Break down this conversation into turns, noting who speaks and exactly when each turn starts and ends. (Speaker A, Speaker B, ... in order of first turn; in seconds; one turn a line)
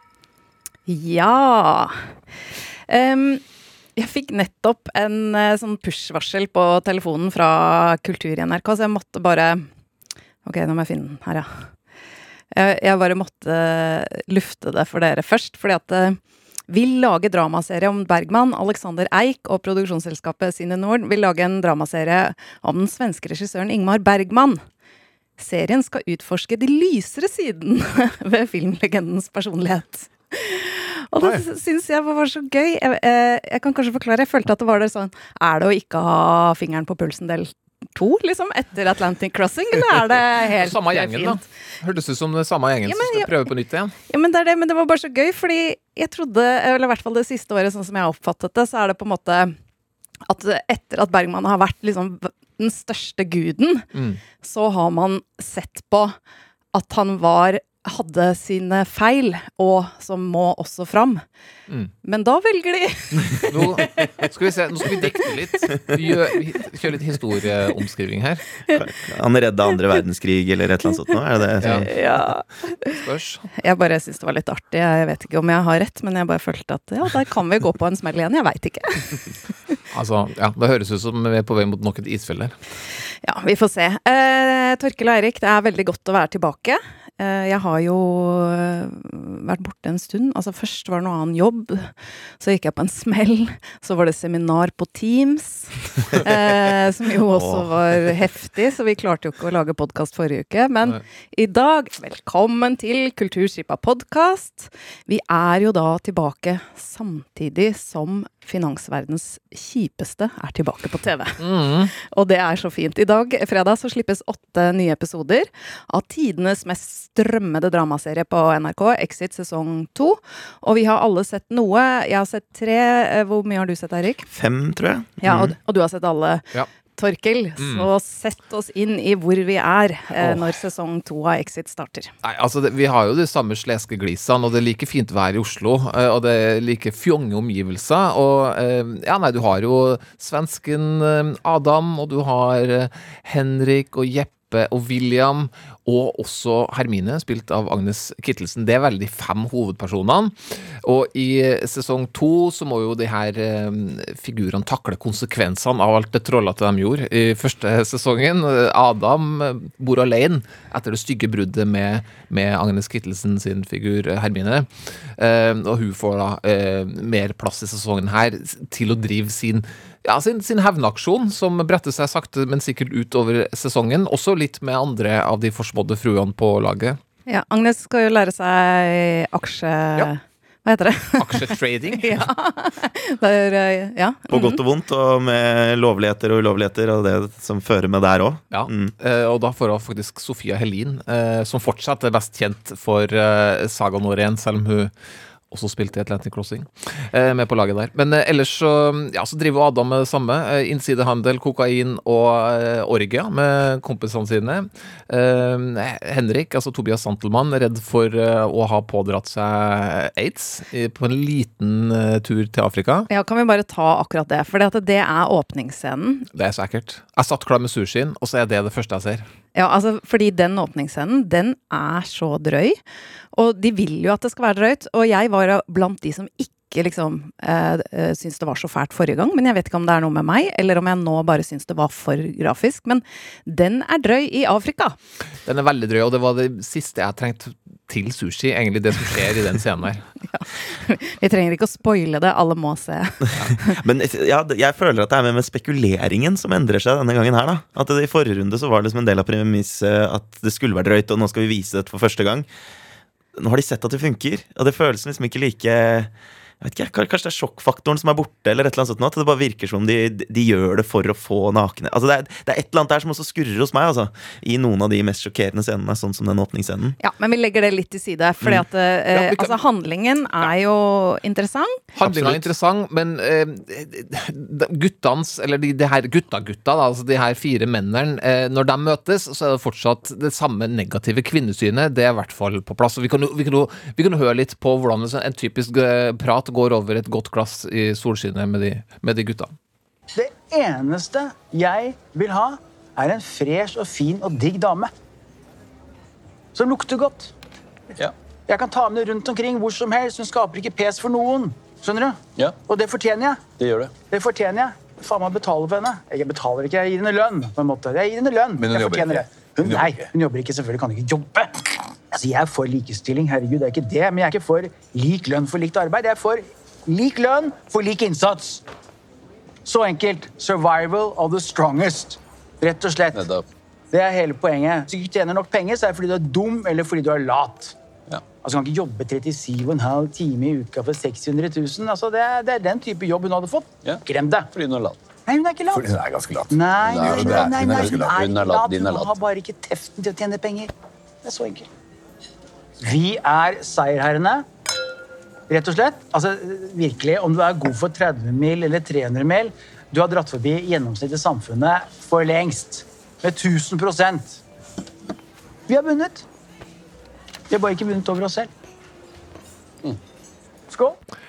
Speaker A: 0.9-1.9
Speaker A: 2.9-3.4
Speaker A: 4.0-9.7
Speaker A: 10.4-11.7
Speaker A: 12.5-24.6
Speaker A: 25.4-41.4
Speaker B: 40.6-43.9
Speaker A: 42.9-43.5
Speaker A: 44.1-49.5
Speaker A: 50.3-53.9
Speaker B: 53.9-54.2
Speaker A: 54.4-56.2
Speaker A: 56.7-61.2
Speaker A: 62.0-64.2
Speaker B: 63.5-68.4
Speaker A: 64.9-65.3
Speaker C: 68.7-71.9
Speaker A: 71.6-73.0
Speaker B: 71.6-71.9
Speaker B: 72.9-73.5
Speaker A: 73.6-79.2
Speaker B: 79.9-82.5
Speaker A: 83.2-124.3
Speaker C: 97.3-97.7
Speaker B: 111.4-111.9
Speaker C: 124.3-125.3
Speaker A: 125.2-126.5
Speaker B: 125.3-125.5
Speaker A: 127.0-132.1
Speaker B: 127.6-127.9
Speaker B: 130.2-130.5
Speaker B: 132.2-177.0
Speaker A: 177.3-184.6
Speaker B: 181.2-182.2
Speaker C: 184.3-188.9
Speaker B: 188.5-194.9
Speaker B: 195.5-213.1
Speaker A: 213.1-216.3
Speaker B: 216.3-219.3
Speaker A: 219.6-222.8
Speaker A: 223.3-235.0
Speaker B: 235.5-240.1
Speaker A: 240.3-243.8
Speaker C: 243.7-252.5
Speaker C: 253.4-267.0
Speaker A: 267.0-271.8
Speaker B: 269.1-269.6
Speaker B: 271.9-289.5
Speaker C: 272.0-272.4
Speaker D: 290.1-294.9
Speaker D: 296.6-297.3
Speaker D: 298.5-303.5
Speaker E: 303.6-303.9
Speaker D: 304.1-318.6
Speaker E: 308.6-310.1
Speaker D: 319.6-323.2
Speaker E: 323.1-323.4
Speaker D: 323.9-327.8
Speaker D: 328.4-334.5
Speaker E: 333.8-335.0
Speaker D: 335.3-335.9
Speaker E: 335.7-339.2
Speaker D: 336.5-340.7
Speaker D: 341.2-341.7
Speaker D: 342.8-344.4
Speaker D: 345.5-354.4
Speaker D: 355.7-356.3
Speaker D: 357.5-358.5
Speaker D: 360.7-361.0